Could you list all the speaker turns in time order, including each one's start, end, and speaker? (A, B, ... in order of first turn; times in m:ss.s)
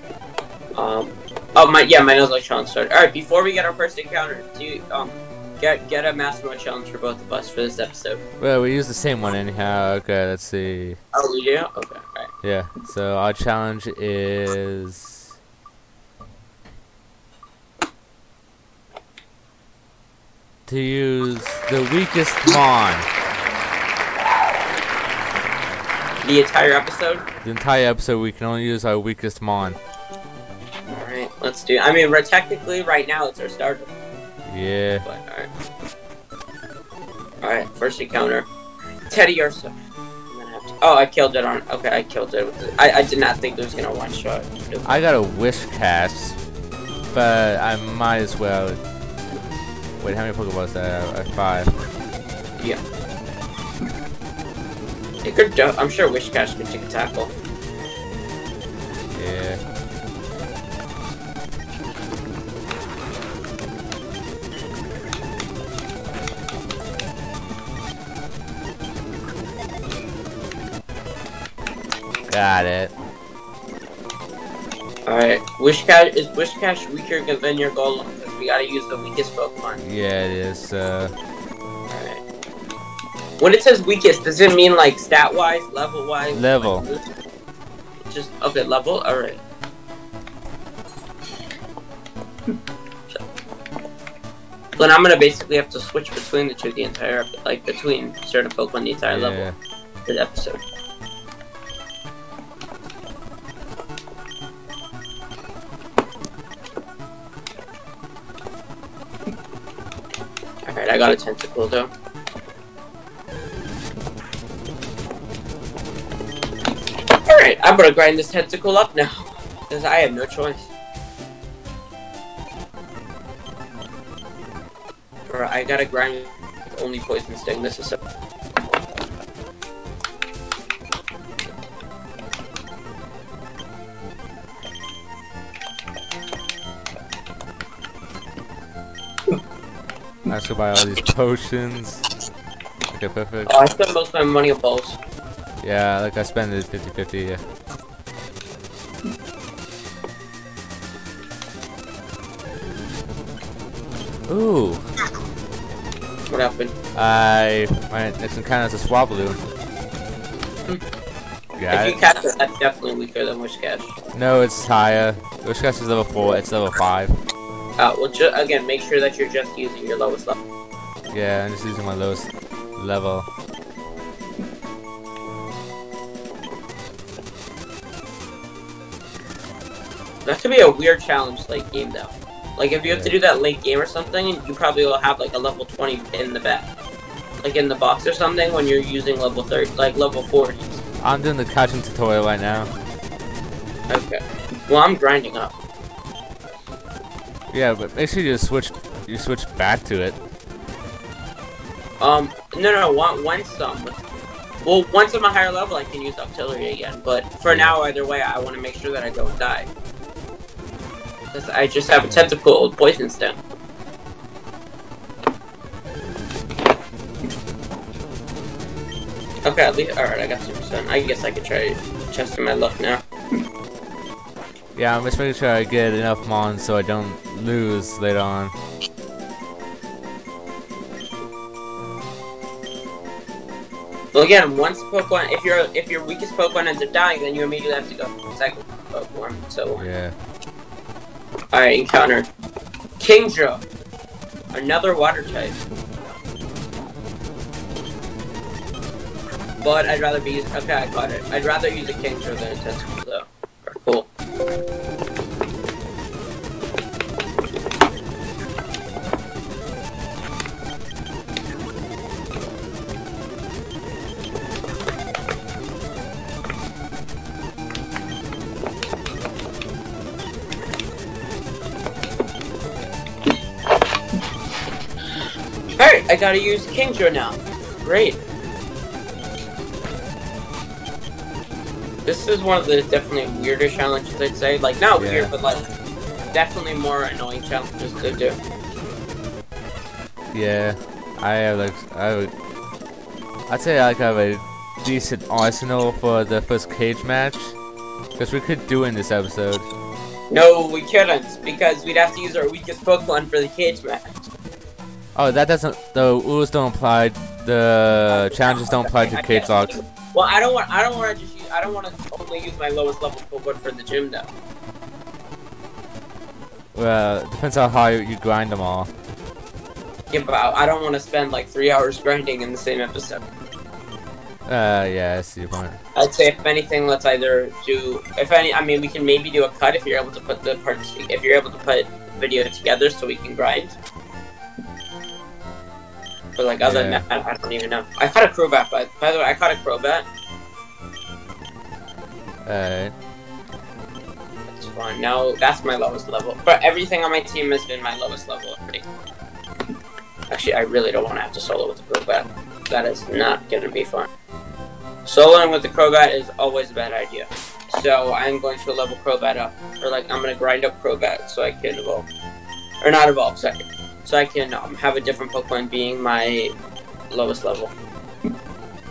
0:00.8-0:08.2 A
0:08.4-0:11.0 B
0:11.1-0:12.3 A
0:12.4-0:15.3 B
0:20.7-0:23.1 B
0:26.2-0:27.2 A
0:27.4-0:29.8 B
0:30.9-0:33.9 A
0:34.5-0:35.0 B
0:35.0-0:35.5 A
0:37.4-0:38.5 A
0:39.1-0:39.7 A
0:40.3-0:45.0 A
0:44.8-0:46.4 B
0:47.1-0:48.8 B
0:50.0-0:51.8 B
0:55.2-0:57.3 A
0:59.1-0:59.6 B
1:12.3-1:12.9 B
1:15.1-1:19.8 A
1:19.8-1:21.1 B
1:21.9-1:22.2 A
1:23.4-1:27.1 A
1:26.3-1:26.8 B
1:28.1-1:29.4 A
1:34.8-1:39.4 A
1:39.1-1:39.5 B
1:40.1-1:40.6 A
1:50.6-1:51.9 A
1:57.2-2:00.7 A
2:05.2-2:08.0 A
2:20.2-2:22.1 B
2:22.9-2:23.6 B
2:23.4-2:25.0 A
2:25.6-2:27.4 B
2:34.3-2:34.9 B
2:36.3-2:36.7 A
2:36.9-2:39.4 B
2:41.6-2:42.0 B
2:41.7-2:43.9 A
2:44.1-2:47.2 B
2:47.8-2:50.4 A
2:51.1-2:53.3 B
3:00.2-3:06.7 A
3:02.8-3:03.1 B
3:07.4-3:10.8 A
3:11.0-3:12.7 B
3:13.9-3:15.5 A
3:17.5-3:20.2 B
3:22.0-3:24.0 A
3:24.6-3:29.7 A
3:27.5-3:27.8 B
3:31.3-3:33.4 A
3:39.4-3:43.0 A
3:44.7-3:48.5 B
3:54.1-3:59.9 A
3:59.7-4:00.1 B
4:01.5-4:02.3 A
4:03.0-4:03.6 A
4:04.5-4:05.6 A
4:09.6-4:14.1 A
4:35.8-4:38.2 A
4:42.0-4:45.7 A
4:45.0-4:45.3 B
4:46.3-4:48.4 A
4:50.3-4:52.3 B
4:53.5-4:57.6 B
4:58.2-4:59.7 B
5:00.3-5:04.3 A
5:05.1-5:09.8 B
5:08.1-5:14.3 A
5:16.7-5:18.9 B
5:20.1-5:23.2 A
5:24.4-5:25.8 B
5:25.9-5:33.8 A
5:36.4-5:40.0 A
5:36.6-5:37.0 B
5:42.4-5:42.9 B
5:44.5-5:48.8 A
5:50.3-5:54.1 A
5:55.0-6:02.1 A
6:02.8-6:06.5 A
6:07.1-6:07.7 A